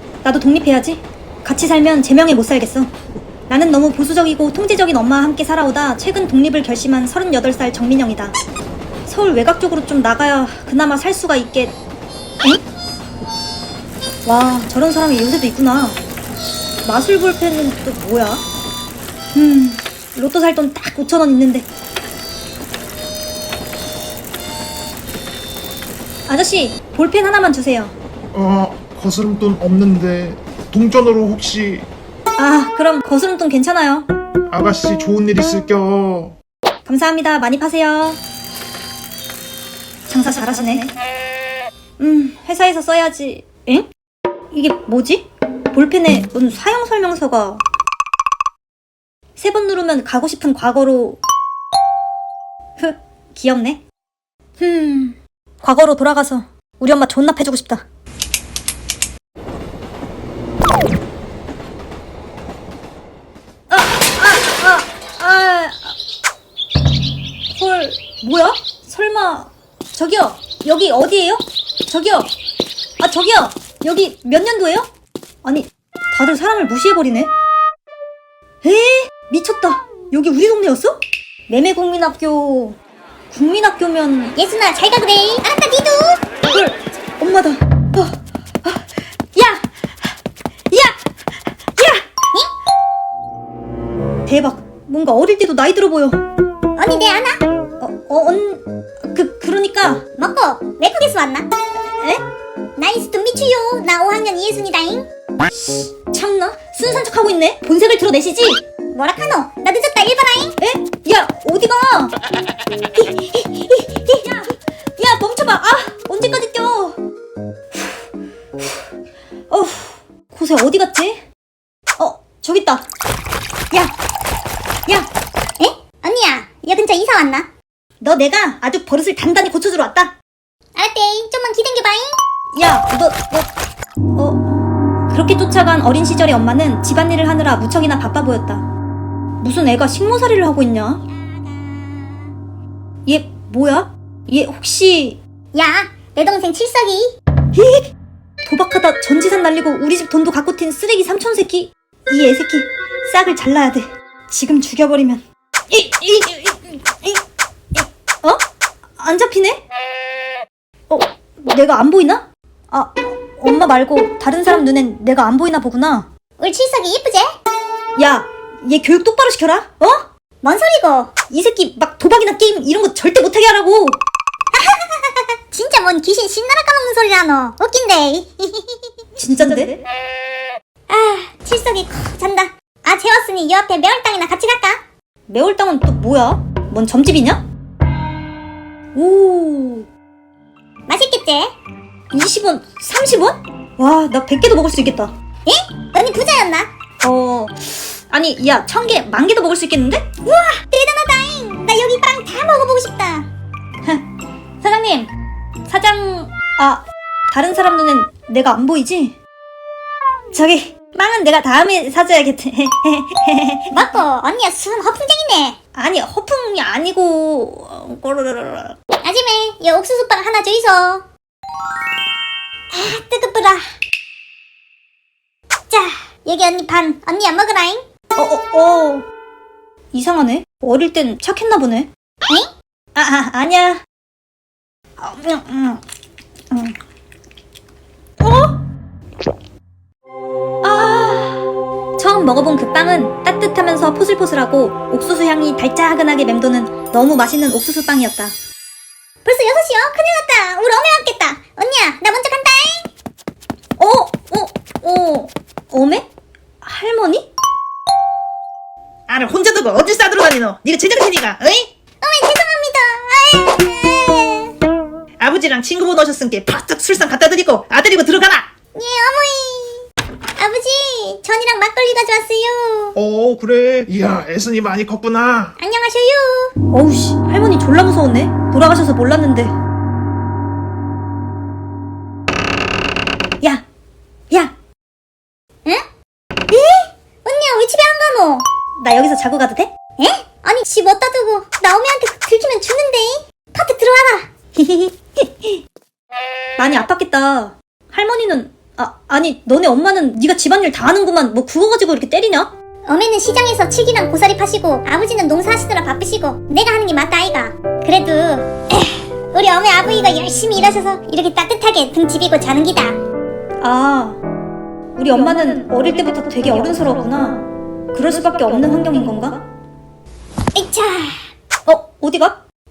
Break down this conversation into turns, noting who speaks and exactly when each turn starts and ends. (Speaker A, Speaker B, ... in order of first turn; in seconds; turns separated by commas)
Speaker A: 0.2-2.9, Speaker A: 3.5-8.3, Speaker A: 9.1-11.8, Speaker A: 14.2-16.0, Speaker A: 16.8-18.4, Speaker A: 19.3-21.6, Speaker A: 26.3-27.9, Speaker B: 28.3-31.9, Speaker A: 32.4-34.1, Speaker B: 34.5-36.3, Speaker A: 36.8-38.2, Speaker A: 40.1-40.9, Speaker A: 42.0-43.9, Speaker A: 44.5-47.6, Speaker A: 49.4-51.2, Speaker A: 52.8-53.8, Speaker A: 54.6-57.8, Speaker A: 63.7-65.9, Speaker A: 67.5-72.3, Speaker A: 73.0-74.9, Speaker A: 75.4-77.3, Speaker A: 78.6-82.8, Speaker A: 83.3-84.3, Speaker C: 84.3-86.2, Speaker A: 86.5-90.1, Speaker A: 90.7-91.0, Speaker A: 91.7-92.0, Speaker A: 94.2-96.2, Speaker C: 96.8-97.4, Speaker A: 97.8-100.0, Speaker C: 100.2-101.5, Speaker A: 101.8-102.2, Speaker C: 102.8-105.1, Speaker A: 105.5-108.6, Speaker C: 108.9-110.5, Speaker A: 110.6-112.1, Speaker A: 113.0-117.0, Speaker A: 117.7-118.0, Speaker A: 119.5-121.2, Speaker A: 122.0-122.8, Speaker C: 125.6-127.5, Speaker A: 128.0-130.1, Speaker C: 130.8-132.1, Speaker A: 132.5-133.5, Speaker A: 134.1-134.6, Speaker A: 135.1-138.6, Speaker A: 139.4-141.0, Speaker C: 141.0-142.3, Speaker A: 143.1-145.2, Speaker C: 145.5-147.1, Speaker A: 147.5-147.9, Speaker A: 148.4-157.2, Speaker A: 157.7-158.4, Speaker A: 159.0-159.6, Speaker A: 160.9-166.1, Speaker C: 166.4-167.3, Speaker A: 168.0-170.1, Speaker C: 170.4-171.1, Speaker A: 171.3-174.0, Speaker C: 174.5-179.7, Speaker A: 179.2-179.8, Speaker C: 180.9-184.8, Speaker A: 185.3-187.4, Speaker A: 188.9-189.9, Speaker C: 190.9-191.5, Speaker A: 192.1-195.1, Speaker C: 195.4-196.7, Speaker A: 197.0-200.5, Speaker C: 200.6-203.3, Speaker A: 204.6-205.1, Speaker A: 205.7-209.2, Speaker A: 210.3-214.0, Speaker C: 213.7-215.6, Speaker A: 215.7-218.8, Speaker C: 219.0-221.0, Speaker C: 222.7-223.6, Speaker C: 225.7-227.8, Speaker A: 228.2-229.1, Speaker A: 229.9-231.9, Speaker A: 232.9-233.8, Speaker A: 235.0-235.8, Speaker A: 236.5-236.8, Speaker A: 238.2-238.6, Speaker A: 240.6-248.3, Speaker C: 249.2-252.9, Speaker A: 253.8-256.1, Speaker A: 256.6-257.3, Speaker D: 259.1-261.7, Speaker C: 262.0-264.5, Speaker D: 265.2-268.5, Speaker C: 268.7-269.9, Speaker C: 270.4-272.9, Speaker B: 272.9-275.5, Speaker C: 275.6-276.5, Speaker A: 276.7-279.5, Speaker C: 286.5-288.4, Speaker A: 288.8-289.7, Speaker C: 290.0-294.3, Speaker A: 294.6-295.6, Speaker A: 296.6-302.5, Speaker C: 302.9-313.0, Speaker A: 313.6-314.2, Speaker A: 314.9-319.4, Speaker C: 320.5-321.2, Speaker A: 321.6-322.4